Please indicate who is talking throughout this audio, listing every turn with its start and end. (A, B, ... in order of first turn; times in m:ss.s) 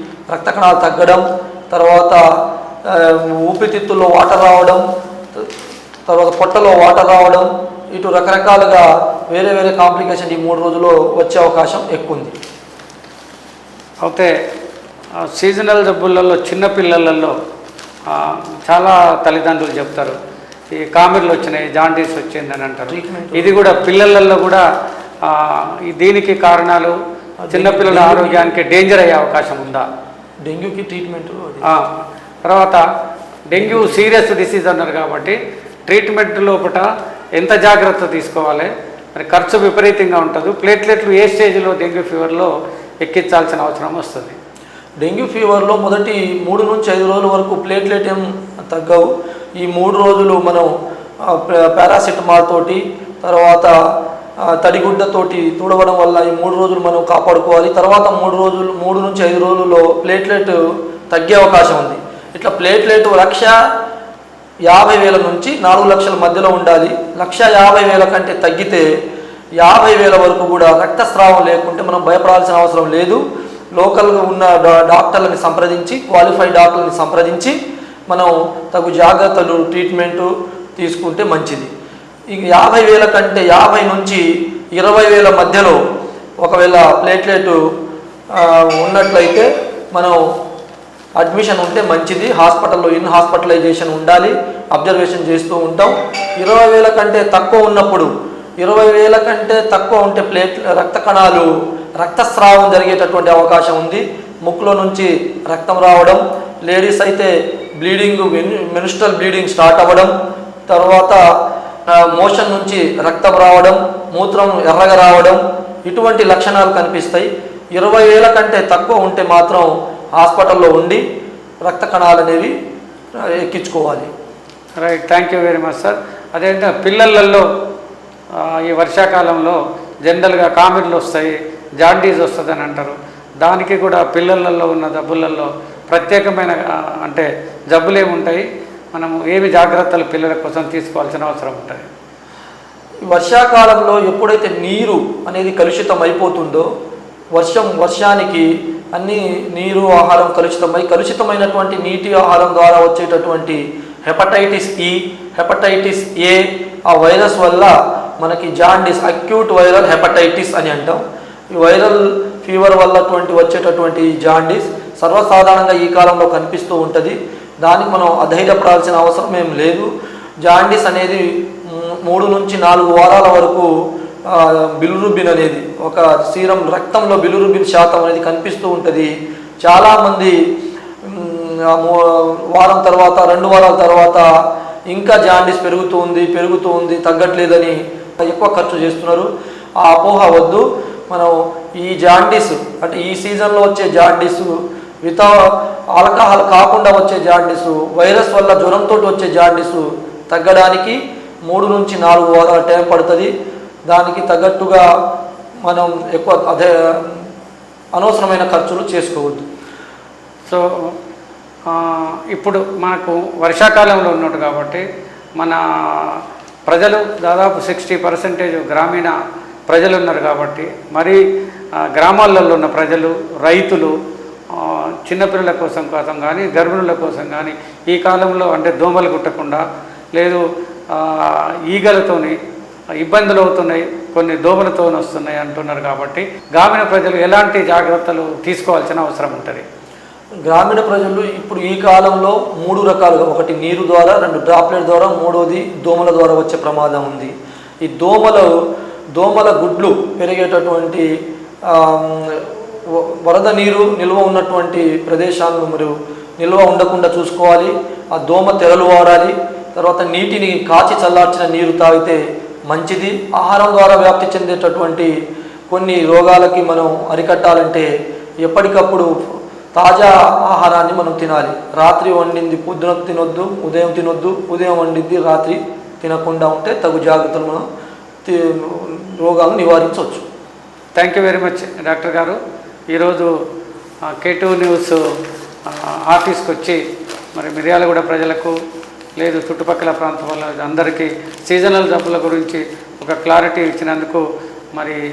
0:00.3-0:02.2 A
0:02.9-0:04.8 A
0:06.1-0:12.3 A
0:14.0-0:14.3 B
0:15.2-0:17.3 B
0:18.1-0:20.2 B
0:20.7-0:24.6 B
0:22.9-0:23.6 A
0:25.2-0:26.9 B
0:27.4-0:28.4 A
0:27.5-0:29.8 B
0:30.4-0:31.7 A
0:31.6-0:32.8 B
0:33.5-0:36.8 B
0:33.5-0:34.0 A
0:37.4-0:42.5 B
0:43.0-0:44.4 B
0:45.0-0:49.1 A
0:49.6-0:50.7 A
0:51.2-0:53.7 A
0:54.5-1:00.6 A
1:01.1-1:03.5 A
1:04.7-1:08.8 A
1:09.6-1:13.2 A
1:13.8-1:17.6 A
1:18.1-1:21.7 A
1:22.3-1:24.2 A
1:24.8-1:25.8 A
1:26.4-1:27.6 A
1:28.4-1:30.2 A
1:31.2-1:38.1 A
1:38.6-1:47.3 A
1:47.8-1:50.1 A
1:50.7-1:51.2 A
1:51.9-2:01.0 A
2:01.6-2:02.5 A
2:03.4-2:04.1 A
2:04.8-2:07.4 B
2:08.4-2:21.9 B
2:23.1-2:26.7 A
2:27.3-2:41.0 A
2:41.6-2:49.9 A
2:50.4-2:53.7 A
2:54.3-2:59.1 A
2:59.6-3:00.4 A
3:01.1-3:04.2 A
3:04.9-3:09.3 A
3:09.8-3:14.5 A
3:15.0-3:15.3 A
3:16.0-3:23.3 A
3:23.9-3:24.8 A
3:25.7-3:27.2 A
3:28.0-3:29.5 A
3:31.7-3:34.8 B
3:35.4-3:39.1 B
3:39.7-3:41.2 B
3:42.0-3:43.9 B
3:44.5-3:49.6 B
3:50.9-3:52.4 B
3:53.0-3:59.6 B
4:00.5-4:07.3 A
4:07.8-4:08.5 A
4:09.2-4:11.1 A
4:11.7-4:25.1 A
4:25.7-4:27.9 A
4:28.4-4:29.1 A
4:29.8-4:37.6 A
4:38.2-4:40.2 A
4:41.0-4:42.4 B
4:42.9-4:43.3 B
4:44.2-4:45.0 B
4:45.7-4:46.8 B
4:47.4-4:48.5 B
4:49.2-4:54.2 B